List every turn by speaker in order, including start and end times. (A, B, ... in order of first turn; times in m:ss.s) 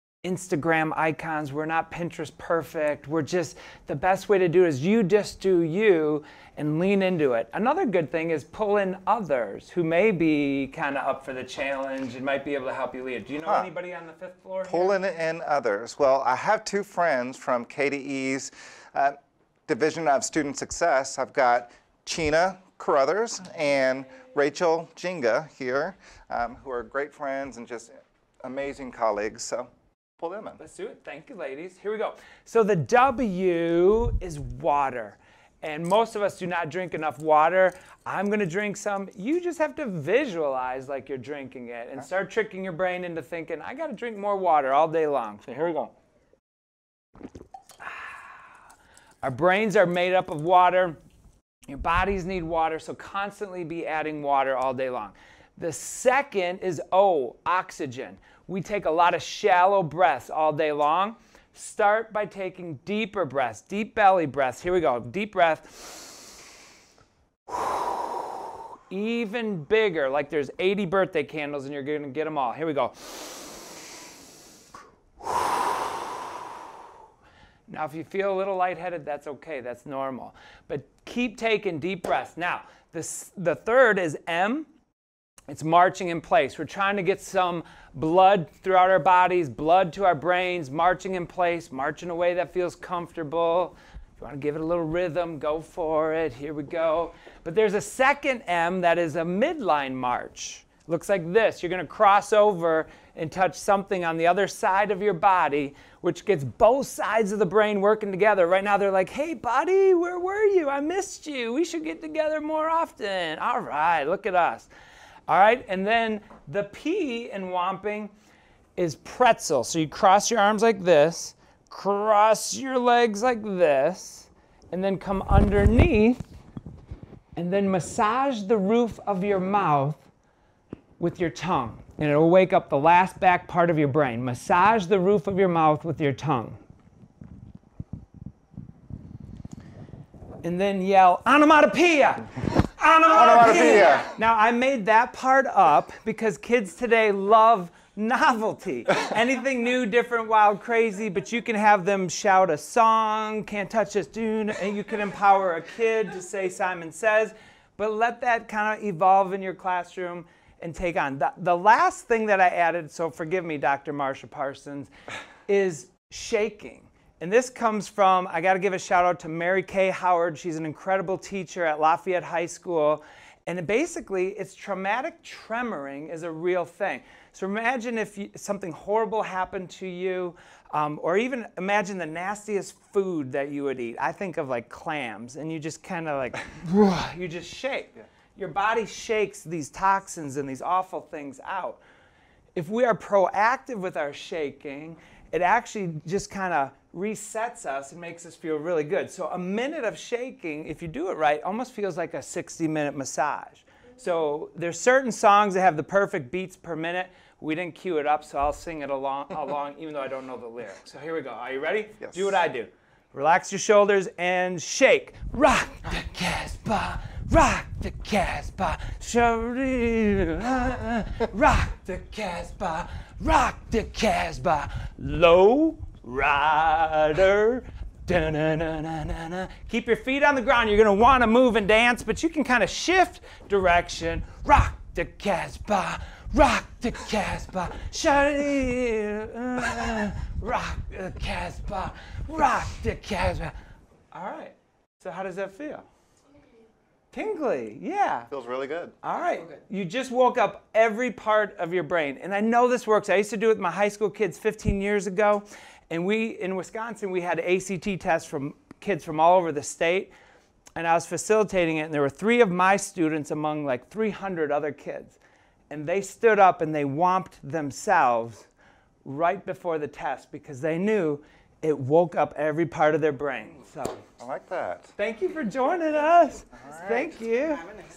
0:00.2-0:15.0 A
0:13.4-0:13.7 B
0:14.7-0:19.2 B
0:19.7-0:30.6 B
0:30.6-0:45.9 A
0:47.8-0:48.2 A
0:49.2-0:51.0 A
0:51.7-1:06.1 A
1:07.5-1:13.6 A
1:15.2-1:16.2 A
1:17.7-1:24.7 A
1:25.5-1:54.7 A
1:55.3-1:58.1 A
1:58.8-2:06.2 A
2:07.4-2:10.0 A
2:11.0-2:16.6 A
2:20.4-2:44.9 A
2:23.1-2:24.1 B
2:45.5-3:11.8 A
3:12.5-4:03.5 A
3:32.0-3:32.4 B
4:04.1-4:05.8 A
4:07.1-4:08.3 A
4:08.3-4:08.9 B
4:09.0-4:20.1 A
4:20.8-4:25.2 A
4:25.7-4:28.5 A
4:29.0-4:34.0 A
4:34.2-4:34.9 B
4:35.0-4:37.8 A
4:36.5-4:37.1 B